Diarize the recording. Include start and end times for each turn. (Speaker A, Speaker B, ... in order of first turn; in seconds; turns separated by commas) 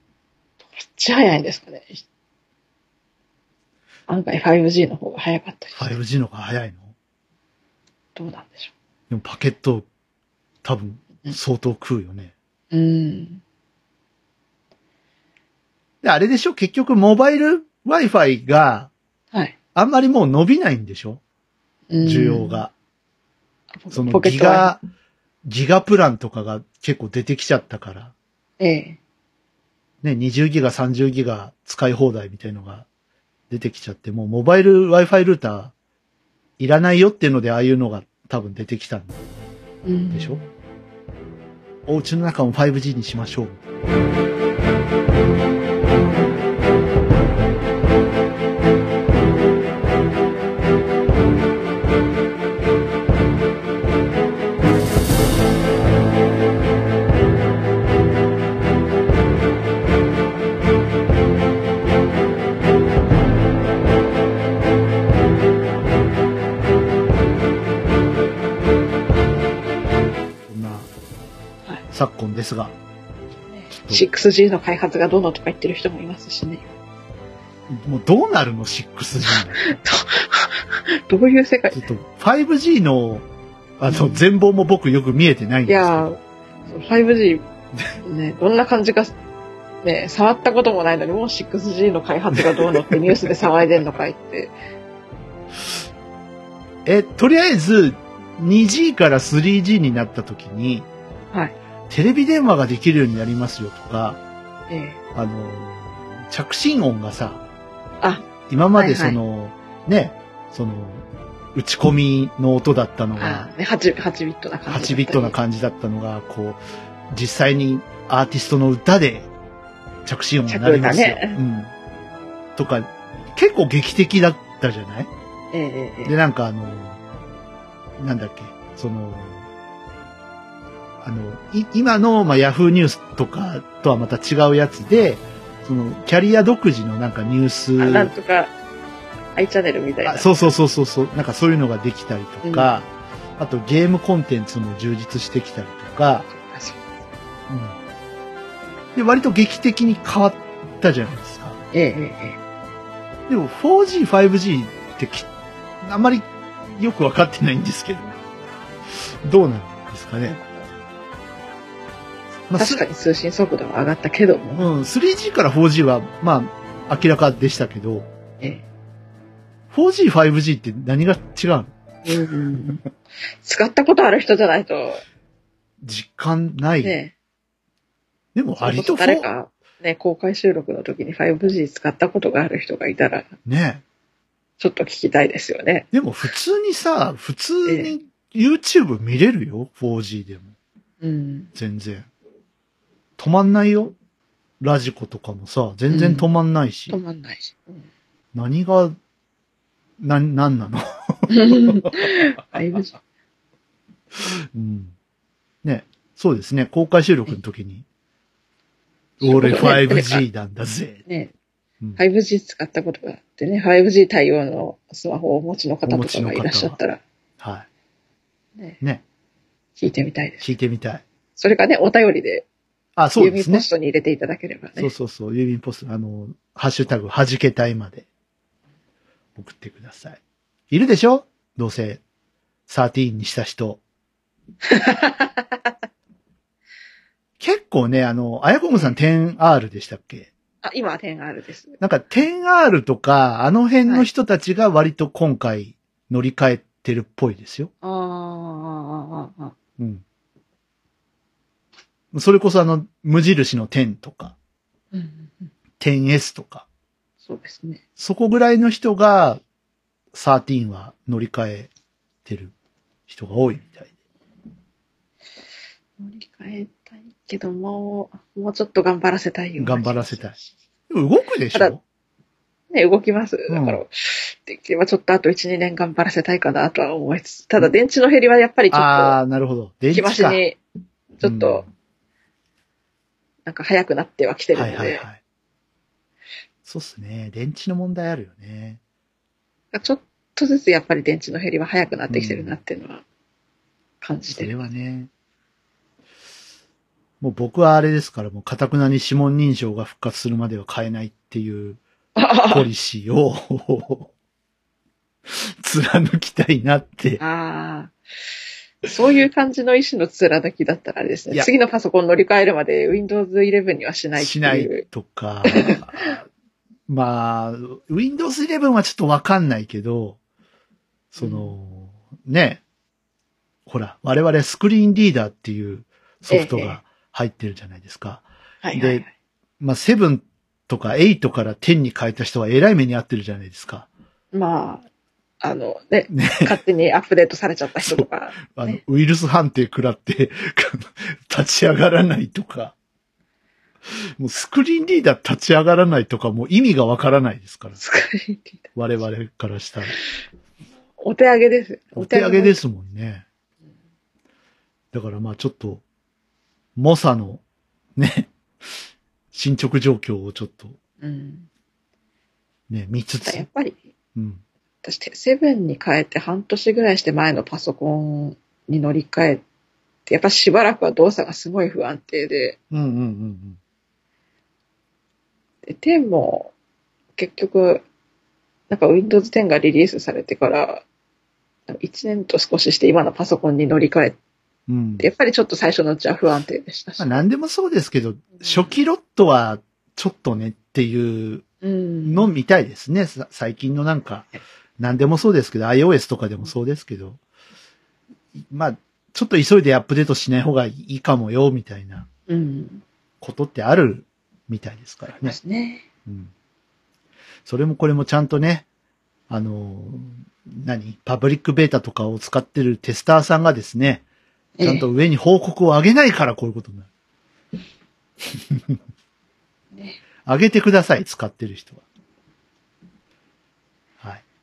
Speaker A: 0.8-2.0, Speaker A: 4.1-6.0, Speaker B: 5.8-6.9, Speaker A: 8.2-8.7, Speaker B: 9.1-9.9, Speaker B: 10.6-12.3, Speaker A: 12.7-13.4, Speaker B: 16.0-18.9, Speaker B: 19.8-21.2, Speaker A: 21.9-22.7, Speaker B: 22.0-22.7, Speaker A: 23.8-24.8, Speaker B: 23.9-24.8, Speaker B: 25.4-28.1, Speaker A: 28.6-29.0, Speaker B: 30.0-32.9, Speaker B: 33.5-35.7, Speaker B: 36.6-39.2, Speaker A: 39.9-40.5, Speaker B: 40.1-40.4, Speaker B: 41.9-43.7, Speaker B: 70.5-70.9, Speaker B: 71.9-72.8, Speaker A: 73.5-76.6, Speaker B: 73.7-74.0, Speaker B: 77.7-79.7, Speaker A: 79.3-81.8, Speaker B: 81.7-83.3, Speaker B: 83.8-86.2, Speaker A: 83.9-84.2, Speaker A: 85.7-87.4, Speaker A: 88.0-89.1, Speaker A: 89.8-94.5, Speaker B: 92.3-93.3, Speaker B: 96.8-100.9, Speaker B: 101.9-104.2, Speaker A: 104.7-105.0, Speaker B: 105.2-107.4, Speaker A: 108.0-109.2, Speaker B: 108.5-113.5, Speaker A: 113.2-115.3, Speaker B: 114.7-119.3, Speaker B: 120.0-121.7, Speaker A: 120.5-121.4, Speaker B: 122.6-125.1, Speaker A: 125.5-126.1, Speaker B: 126.0-127.0, Speaker B: 128.0-129.4, Speaker B: 131.0-138.1, Speaker A: 137.8-138.5, Speaker A: 139.3-140.3, Speaker B: 140.1-146.3, Speaker A: 142.4-142.8, Speaker A: 146.3-146.8, Speaker B: 147.5-147.8, Speaker B: 148.9-151.6, Speaker A: 151.7-152.4, Speaker B: 153.3-155.3, Speaker B: 155.8-158.2, Speaker B: 159.2-160.4, Speaker A: 160.3-160.7, Speaker B: 162.5-162.8, Speaker A: 162.6-164.7, Speaker B: 164.5-168.1, Speaker B: 169.7-171.7, Speaker A: 172.1-172.8, Speaker A: 173.4-175.0, Speaker B: 175.8-177.0, Speaker A: 176.8-177.1, Speaker B: 178.3-179.3, Speaker A: 178.6-183.3, Speaker B: 183.4-183.8, Speaker A: 184.6-185.9, Speaker B: 185.9-190.5, Speaker A: 187.7-187.9, Speaker A: 191.0-191.5, Speaker B: 191.6-192.1, Speaker B: 193.2-193.9, Speaker B: 194.6-197.0, Speaker A: 195.9-196.3, Speaker A: 196.9-197.9, Speaker B: 198.3-199.0, Speaker B: 200.0-202.1, Speaker A: 201.3-203.0, Speaker B: 204.5-204.9, Speaker B: 205.6-207.8, Speaker B: 209.2-211.0, Speaker A: 209.2-210.2, Speaker A: 211.1-211.3, Speaker A: 212.0-217.0, Speaker B: 215.9-216.8, Speaker B: 217.4-217.7, Speaker A: 219.8-220.5, Speaker B: 220.4-221.0, Speaker A: 221.4-222.5, Speaker B: 223.0-223.7, Speaker A: 223.2-224.9, Speaker B: 224.8-228.1, Speaker B: 229.4-232.0, Speaker B: 232.7-233.8, Speaker A: 234.6-235.7, Speaker B: 237.4-240.3, Speaker A: 240.6-241.8, Speaker B: 241.8-247.7, Speaker A: 247.8-249.5, Speaker B: 249.8-250.0, Speaker B: 252.1-254.3, Speaker A: 254.9-255.5, Speaker B: 255.8-256.6, Speaker A: 257.3-257.8, Speaker B: 258.0-259.4, Speaker B: 260.1-261.7, Speaker B: 262.2-262.5, Speaker B: 263.1-263.9, Speaker A: 266.0-270.4, Speaker B: 269.6-270.4, Speaker B: 270.9-271.8, Speaker A: 272.7-279.2, Speaker B: 273.5-273.8, Speaker B: 278.7-280.4, Speaker A: 279.9-280.6, Speaker A: 281.2-281.7, Speaker B: 281.2-281.7, Speaker A: 283.5-285.1, Speaker B: 284.5-285.2, Speaker B: 286.7-288.8, Speaker A: 289.7-293.0, Speaker B: 292.1-292.6, Speaker A: 294.0-294.6, Speaker B: 294.3-295.1, Speaker B: 297.2-301.8, Speaker A: 302.2-302.7, Speaker B: 302.5-304.1, Speaker B: 305.3-307.2, Speaker A: 307.2-307.9, Speaker A: 308.8-314.9, Speaker B: 314.2-316.3, Speaker A: 315.4-316.1, Speaker B: 316.9-320.2, Speaker B: 321.1-322.6, Speaker A: 321.2-321.6, Speaker B: 323.7-329.0, Speaker A: 326.3-326.8, Speaker A: 328.6-329.1, Speaker B: 329.6-333.9, Speaker A: 334.3-334.9, Speaker A: 335.4-338.8, Speaker B: 336.1-336.5, Speaker B: 337.8-342.8, Speaker B: 344.2-347.8, Speaker A: 347.8-348.7, Speaker B: 348.8-349.9, Speaker A: 351.0-352.6, Speaker B: 351.9-353.2, Speaker B: 354.9-355.8, Speaker B: 356.8-357.4, Speaker B: 358.0-358.3, Speaker B: 359.3-360.8, Speaker A: 361.0-361.5, Speaker B: 362.7-363.5, Speaker A: 363.2-363.8, Speaker B: 364.2-364.4, Speaker A: 364.8-369.4, Speaker A: 370.1-372.6, Speaker B: 372.7-373.6, Speaker A: 375.7-376.5, Speaker A: 377.2-377.9, Speaker A: 378.7-380.9, Speaker A: 381.7-384.2, Speaker B: 384.7-385.1, Speaker A: 385.0-387.2, Speaker B: 387.0-391.5, Speaker A: 388.4-388.7, Speaker A: 391.6-392.3, Speaker B: 392.0-397.2, Speaker B: 398.4-402.1, Speaker A: 402.3-402.8, Speaker B: 403.2-405.4, Speaker A: 405.1-405.8, Speaker B: 406.1-406.3, Speaker B: 407.5-408.6, Speaker B: 409.3-414.0, Speaker A: 414.6-414.9, Speaker B: 414.6-416.9, Speaker B: 418.5-418.8, Speaker A: 419.7-420.0, Speaker B: 420.2-421.8